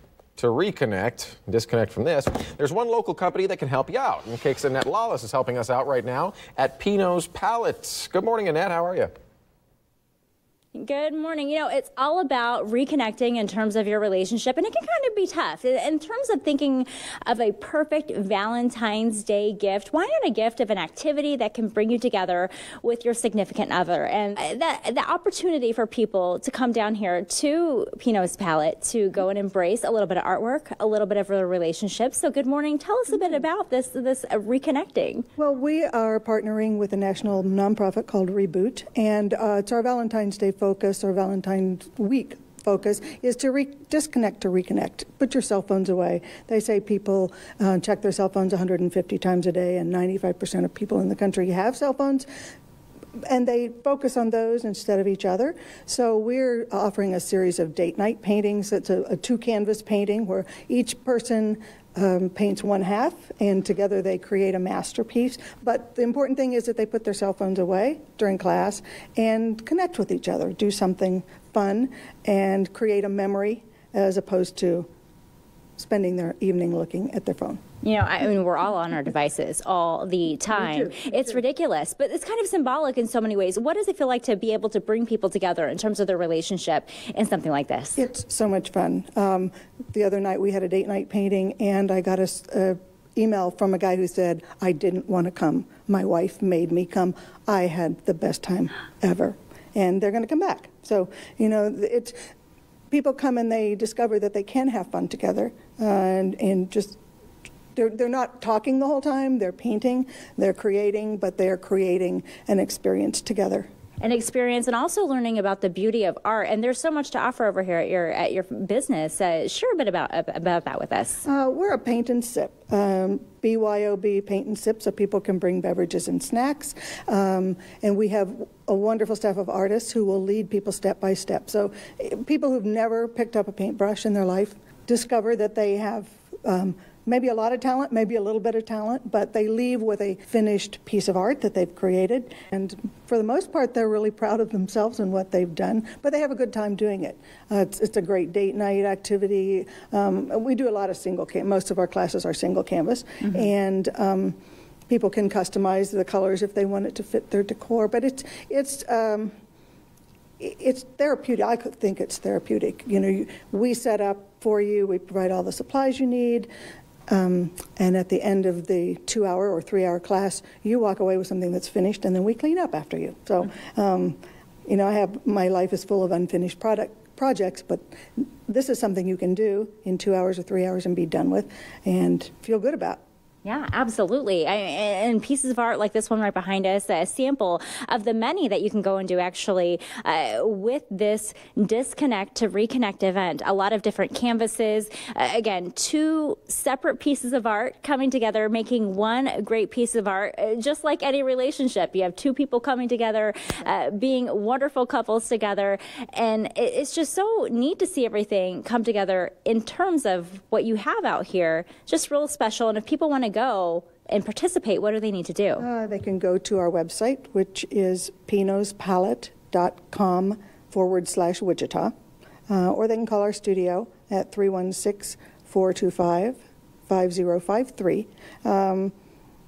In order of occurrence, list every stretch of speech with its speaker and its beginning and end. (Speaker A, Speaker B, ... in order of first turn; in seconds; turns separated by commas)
Speaker A: 0.4-9.1, Speaker B: 10.7-35.2, Speaker C: 35.4-52.3, Speaker C: 53.3-74.9, Speaker C: 75.8-77.6, Speaker B: 77.8-88.0, Speaker C: 80.5-81.4, Speaker C: 88.0-102.2, Speaker C: 102.9-107.0, Speaker C: 107.7-113.7, Speaker B: 114.0-121.2, Speaker C: 121.2-159.3, Speaker C: 160.4-166.5, Speaker C: 167.1-183.0, Speaker B: 183.4-215.7, Speaker C: 215.6-221.9, Speaker C: 222.5-228.9